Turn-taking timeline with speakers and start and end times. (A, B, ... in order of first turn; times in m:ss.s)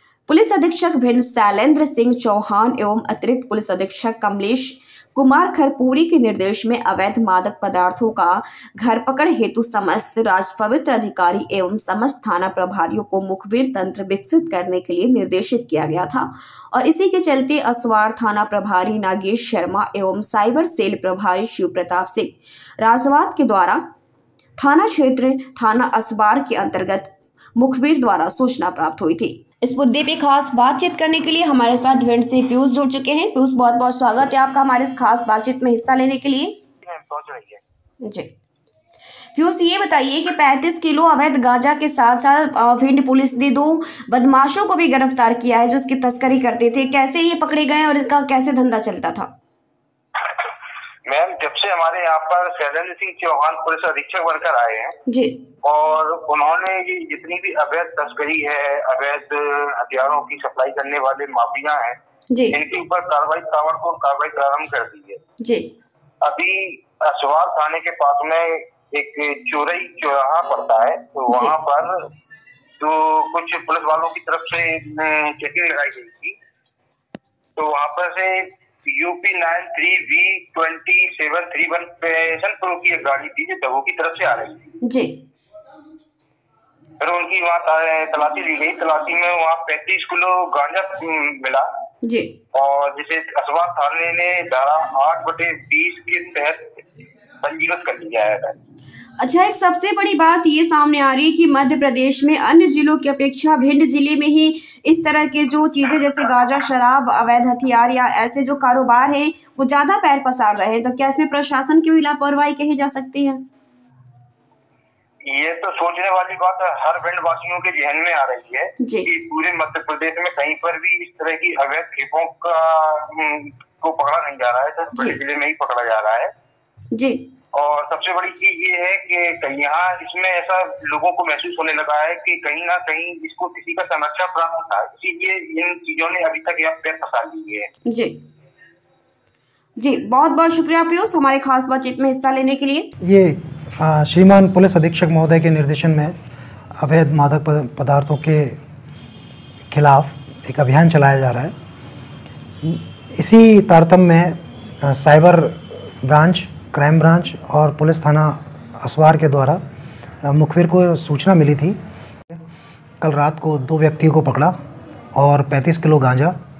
0:00.3-0:23.8 A
0:24.6-0:36.6 A
0:36.8-0:37.6 B
0:38.0-0:38.3 A
0:39.3-0:49.3 A
0:51.0-0:55.0 B
0:55.1-0:55.4 A
0:55.6-1:02.0 B
1:02.3-1:02.6 A
1:02.5-1:05.2 B
1:05.4-1:05.7 A
1:06.2-1:12.1 B
1:11.3-1:11.5 A
1:12.8-1:16.4 B
1:17.6-1:24.7 B
1:24.8-1:25.2 A
1:27.0-1:31.7 B
1:32.0-1:32.3 A
1:32.5-1:36.8 B
1:37.4-1:38.6 B
1:39.2-1:53.4 A
1:55.2-2:06.3 B
1:58.8-1:59.1 A
2:06.9-2:07.2 A
2:07.5-2:17.7 B
2:17.8-2:18.2 A
2:19.8-2:22.9 A
2:23.0-2:26.2 C
2:26.8-2:28.6 C
2:29.7-2:31.5 C
2:32.6-2:39.6 C
2:40.2-2:42.4 C
2:43.0-2:44.5 C
2:45.1-2:46.4 C